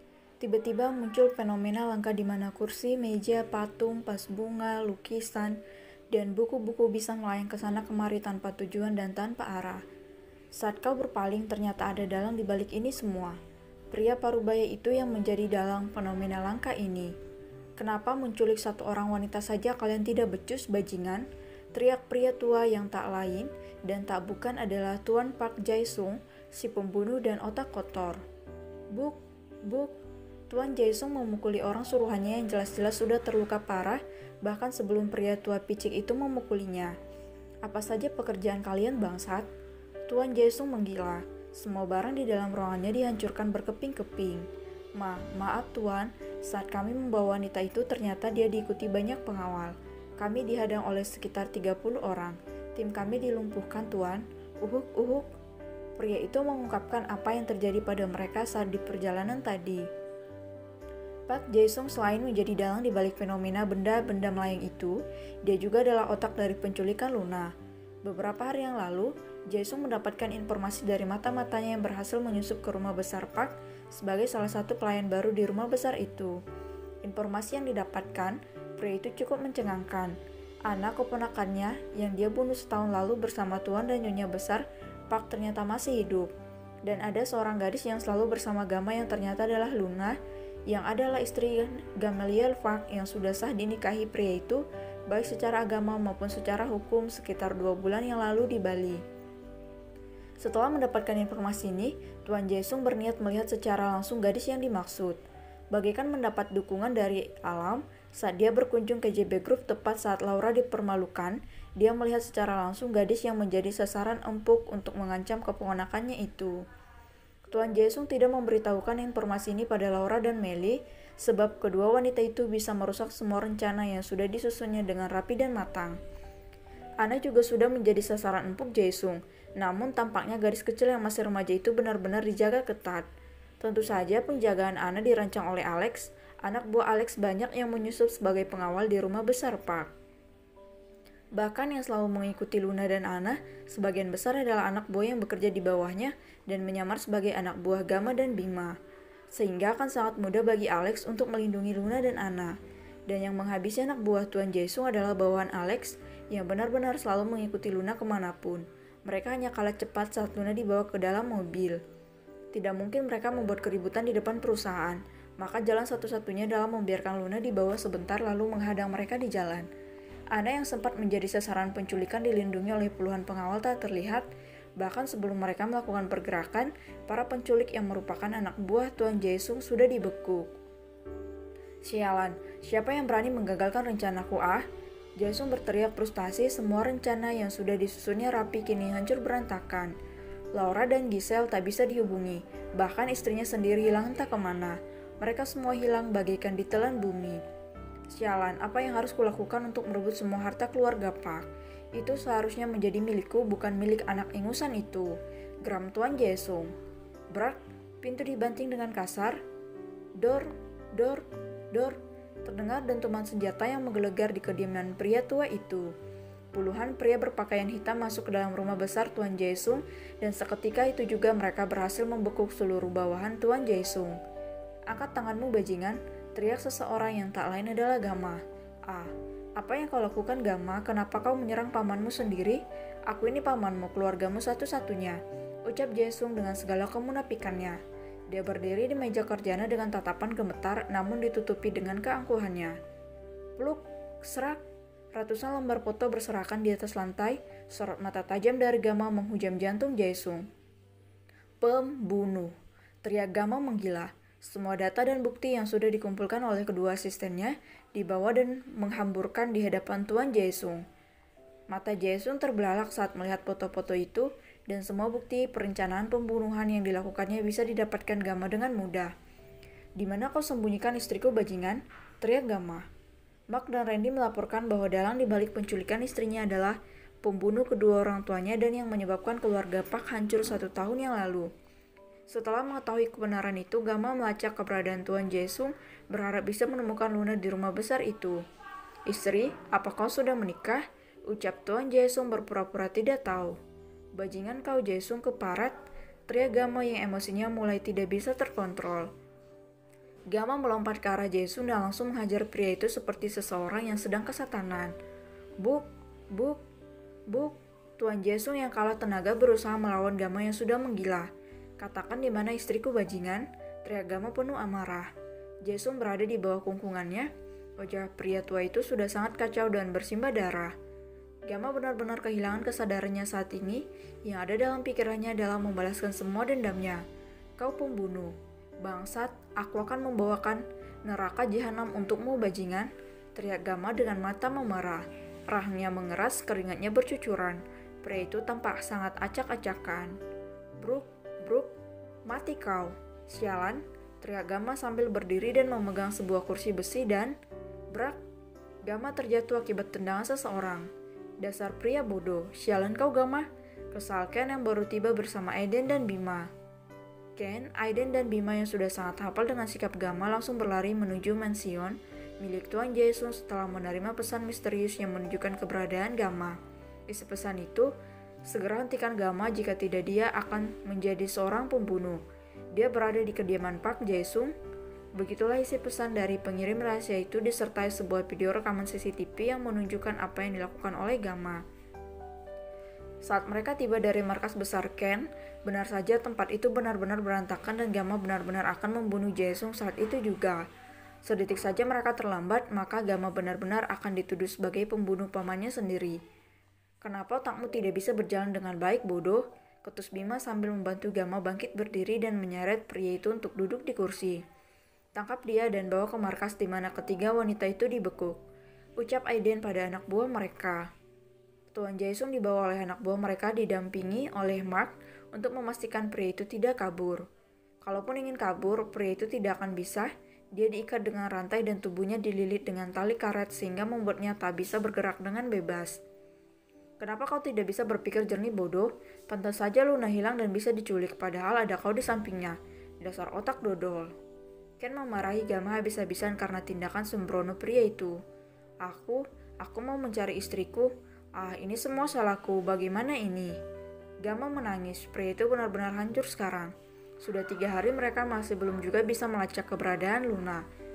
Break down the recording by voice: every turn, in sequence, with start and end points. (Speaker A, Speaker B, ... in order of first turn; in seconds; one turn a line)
Speaker A: 0.4-5.6
Speaker A: 6.1-9.8
Speaker A: 10.6-13.4
Speaker A: 13.9-17.1
Speaker A: 17.8-28.2
Speaker A: 28.9-29.9
Speaker A: 30.5-37.0
Speaker A: 37.6-39.5
Speaker A: 40.1-55.3
Speaker A: 56.0-59.9
Speaker A: 61.3-67.5
Speaker A: 68.0-76.4
Speaker A: 77.0-86.3
Speaker A: 86.8-90.2
Speaker A: 90.7-99.0
Speaker A: 100.4-105.2
Speaker A: 105.7-116.7
Speaker A: 117.5-126.0
Speaker A: 127.0-133.1
Speaker A: 133.6-139.9
Speaker A: 141.4-148.8
Speaker A: 149.3-152.5
Speaker A: 153.1-161.8
Speaker A: 162.5-169.7
Speaker A: 170.3-174.3
Speaker A: 174.8-180.5
Speaker A: 181.8-184.6
Speaker A: 185.2-189.9
Speaker A: 190.5-197.4
Speaker A: 198.1-201.4
Speaker A: 201.9-206.7
Speaker A: 207.3-209.4
Speaker A: 210.2-215.9
Speaker A: 216.5-224.2
Speaker A: 224.9-237.8
Speaker A: 238.3-242.8
Speaker A: 243.6-244.6
Speaker A: 245.1-250.5
Speaker A: 251.6-260.8
Speaker A: 261.7-269.1
Speaker A: 270.0-272.9
Speaker A: 273.5-281.5
Speaker A: 282.3-288.4
Speaker A: 289.1-293.6
Speaker A: 294.1-299.1
Speaker A: 300.3-304.9
Speaker A: 305.6-306.6
Speaker A: 307.3-315.1
Speaker A: 315.6-320.7
Speaker A: 321.5-327.0
Speaker A: 327.6-340.2
Speaker A: 340.8-341.8
Speaker A: 342.3-347.4
Speaker A: 347.9-348.2
Speaker A: 348.8-350.9
Speaker A: 351.4-356.5
Speaker A: 357.4-367.9
Speaker A: 368.5-372.2
Speaker A: 372.7-374.5
Speaker A: 375.1-381.6
Speaker A: 383.2-390.6
Speaker A: 391.2-396.2
Speaker A: 397.0-404.4
Speaker A: 405.1-408.4
Speaker A: 409.0-410.9
Speaker A: 411.7-417.2
Speaker A: 417.8-426.0
Speaker A: 427.0-434.1
Speaker A: 434.8-438.2
Speaker A: 438.8-443.6
Speaker A: 444.2-450.6